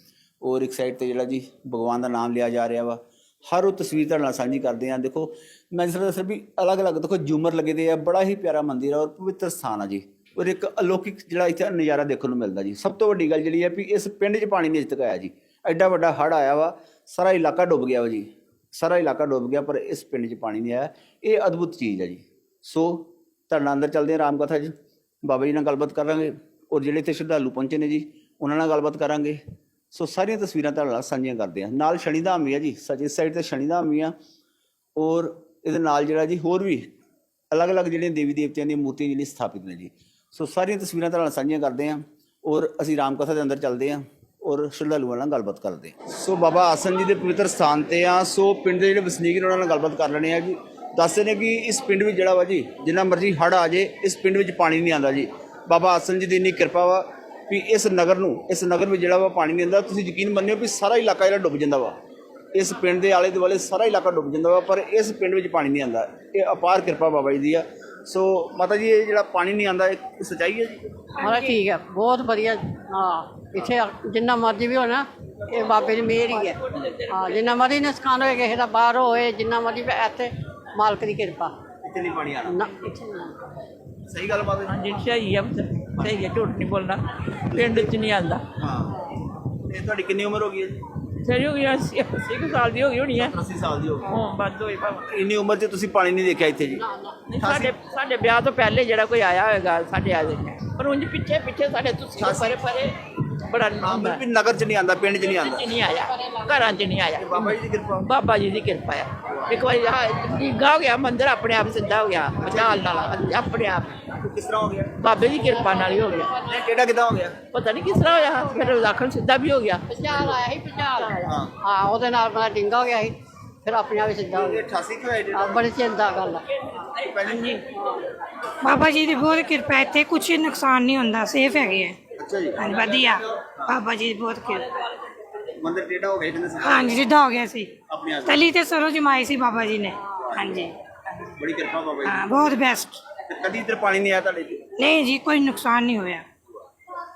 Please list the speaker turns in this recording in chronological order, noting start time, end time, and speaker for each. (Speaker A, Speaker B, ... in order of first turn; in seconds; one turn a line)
Speaker A: 0.4-29.4
Speaker A: 29.9-34.1
Speaker A: 35.0-36.9
Speaker A: 37.5-62.0
Speaker A: 62.5-70.8
Speaker B: 71.2-81.5
Speaker A: 76.8-77.0
Speaker A: 81.8-82.6
Speaker B: 82.5-83.3
Speaker A: 84.1-84.7
Speaker C: 84.7-88.4
Speaker A: 87.5-87.9
Speaker A: 88.6-89.0
Speaker A: 89.7-90.8
Speaker C: 91.2-93.4
Speaker A: 93.2-94.2
Speaker C: 94.0-95.0
Speaker A: 95.1-96.8
Speaker C: 97.3-103.0
Speaker A: 97.4-97.7
Speaker A: 102.2-102.6
Speaker C: 103.5-104.2
Speaker A: 103.8-105.7
Speaker C: 105.3-114.0
Speaker A: 107.2-108.0
Speaker A: 109.3-109.6
Speaker A: 112.4-113.0
Speaker A: 114.1-114.9
Speaker C: 115.0-116.4
Speaker A: 116.4-117.4
Speaker C: 117.5-120.0
Speaker B: 119.9-124.7
Speaker A: 121.2-121.5
Speaker A: 124.3-125.7
Speaker B: 125.3-126.4
Speaker A: 126.8-127.6
Speaker D: 128.6-132.0
Speaker A: 132.2-132.6
Speaker D: 132.6-134.7
Speaker A: 133.5-133.8
Speaker A: 135.6-137.0
Speaker D: 136.6-137.7
Speaker A: 137.9-138.5
Speaker D: 138.2-140.7
Speaker A: 140.2-140.6
Speaker A: 141.4-142.5
Speaker D: 142.0-143.0
Speaker A: 143.3-144.7
Speaker D: 144.8-146.2